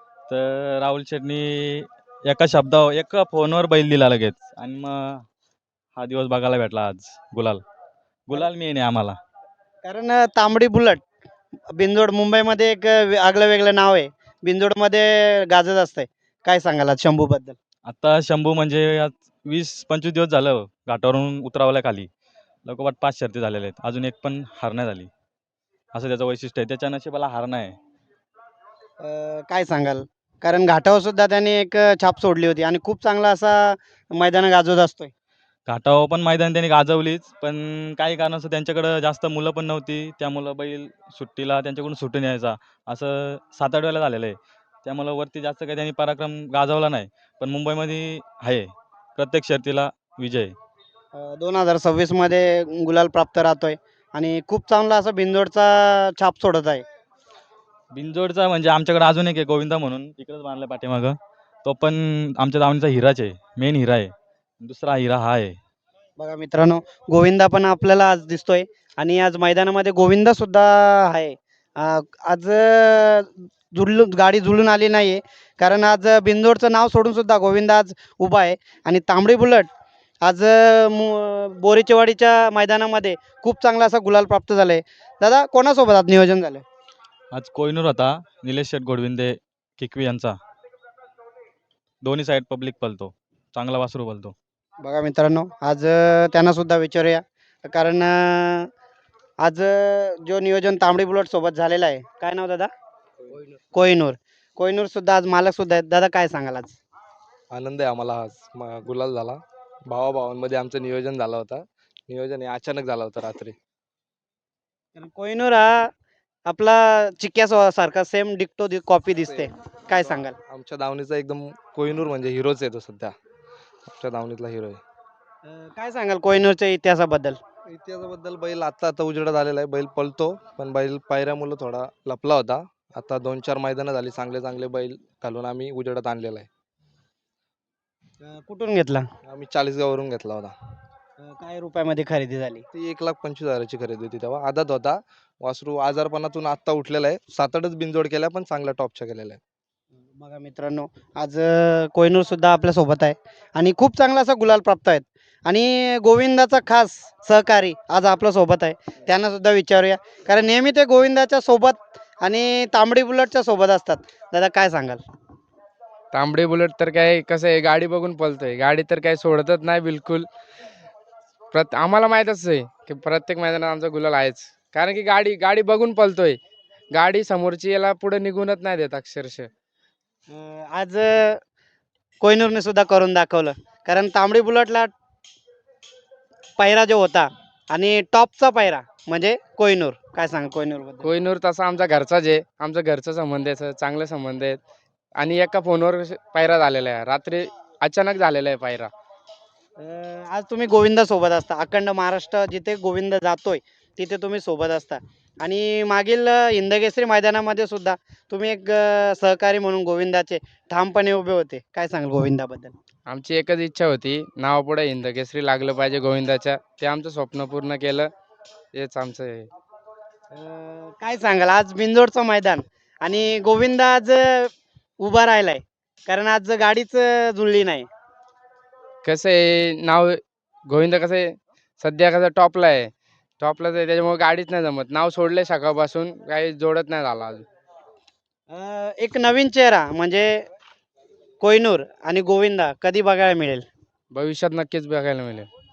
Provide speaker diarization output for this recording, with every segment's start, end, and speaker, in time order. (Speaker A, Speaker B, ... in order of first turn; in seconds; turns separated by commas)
Speaker A: 0.3-5.3, Speaker A: 6.0-7.6, Speaker A: 8.3-9.2, Speaker B: 9.8-11.1, Speaker B: 11.7-17.6, Speaker A: 17.9-22.1, Speaker A: 22.7-25.1, Speaker A: 25.9-27.8, Speaker B: 29.0-35.1, Speaker A: 35.7-50.5, Speaker B: 51.1-56.8, Speaker A: 57.9-65.6, Speaker B: 66.2-79.7, Speaker B: 80.2-86.6, Speaker A: 87.3-90.4, Speaker A: 92.0-94.3, Speaker B: 94.8-98.7, Speaker B: 99.4-102.7, Speaker B: 103.7-106.8, Speaker C: 107.5-113.6, Speaker B: 115.0-115.9, Speaker B: 116.5-120.4, Speaker C: 119.1-123.2, Speaker C: 123.9-124.8, Speaker B: 125.5-127.4, Speaker C: 127.7-136.5, Speaker B: 138.2-139.1, Speaker C: 139.3-140.6, Speaker B: 141.2-142.6, Speaker C: 142.7-149.4, Speaker B: 150.2-165.0, Speaker D: 166.1-170.3, Speaker D: 171.5-176.4, Speaker D: 176.9-179.5, Speaker B: 180.3-181.4, Speaker B: 182.2-184.9, Speaker B: 186.6-191.1, Speaker D: 191.0-194.6, Speaker D: 195.2-198.9, Speaker B: 199.8-212.7, Speaker D: 213.1-218.1, Speaker D: 218.7-219.5, Speaker B: 220.3-227.9, Speaker D: 229.0-237.5, Speaker B: 238.5-240.4, Speaker B: 241.4-243.7, Speaker D: 244.1-245.5